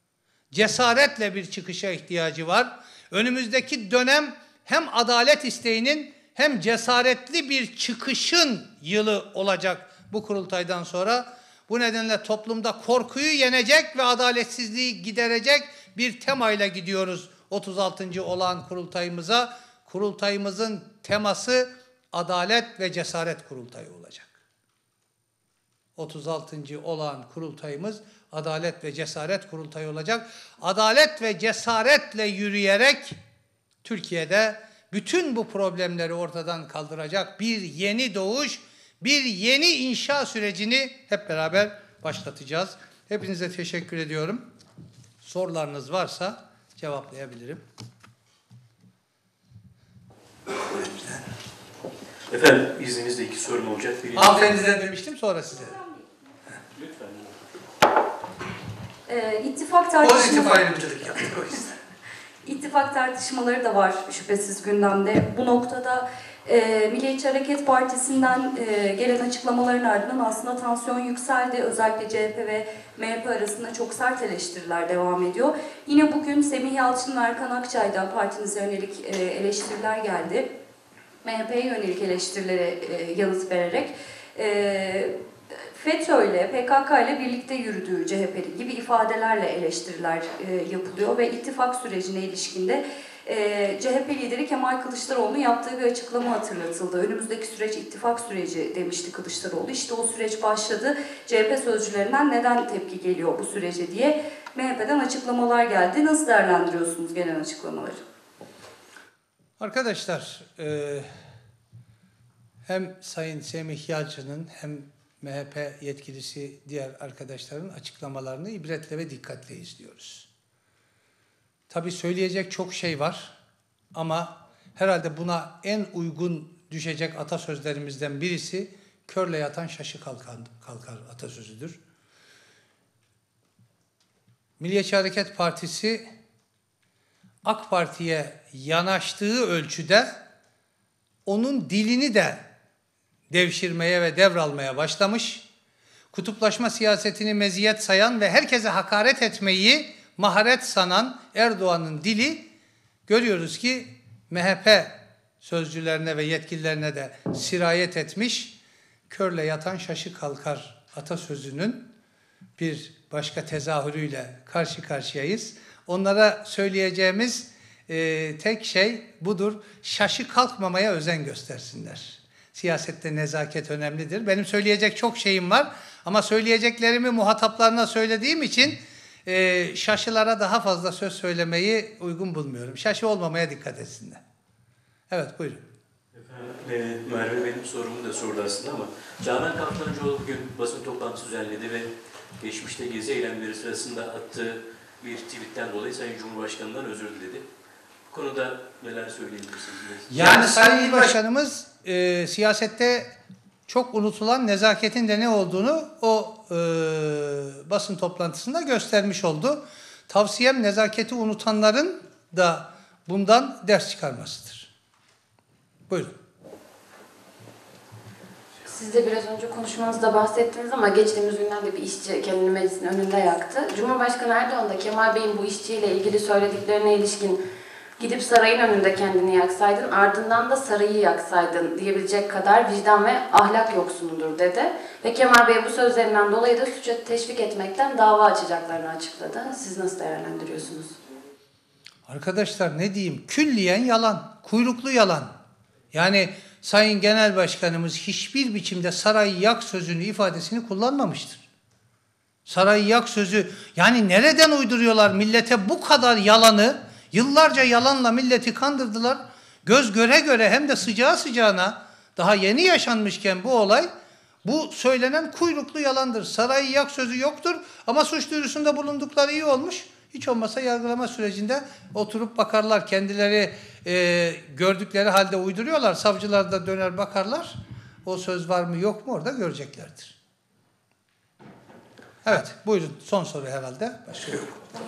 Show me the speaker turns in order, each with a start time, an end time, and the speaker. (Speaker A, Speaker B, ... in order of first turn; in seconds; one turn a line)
Speaker A: 0.5-24.4
Speaker A: 25.9-33.2
Speaker A: 33.8-44.5
Speaker A: 45.2-47.6
Speaker A: 50.8-51.1
Speaker B: 52.3-54.5
Speaker A: 54.1-55.8
Speaker B: 56.8-57.3
Speaker C: 59.1-61.0
Speaker A: 60.0-61.7
Speaker C: 62.4-80.5
Speaker C: 81.2-108.0
Speaker A: 109.6-111.1
Speaker A: 112.7-120.3
Speaker A: 121.7-123.3
Speaker A: 123.9-131.8
Speaker A: 134.6-136.1
Speaker A: 137.4-140.1
Speaker A: 141.2-142.4
Speaker A: 143.3-145.4
Speaker A: 146.1-152.5
Speaker A: 153.1-158.6
Speaker A: 159.1-161.9
Speaker A: 162.6-184.2
Speaker A: 185.1-185.6
Speaker B: 186.1-197.4
Speaker B: 198.1-200.4
Speaker A: 200.1-203.1
Speaker A: 203.7-214.7
Speaker D: 218.7-227.4
Speaker D: 228.0-240.9
Speaker A: 242.1-245.3
Speaker A: 245.9-251.4
Speaker A: 252.5-263.9
Speaker A: 264.4-280.1
Speaker A: 282.2-284.6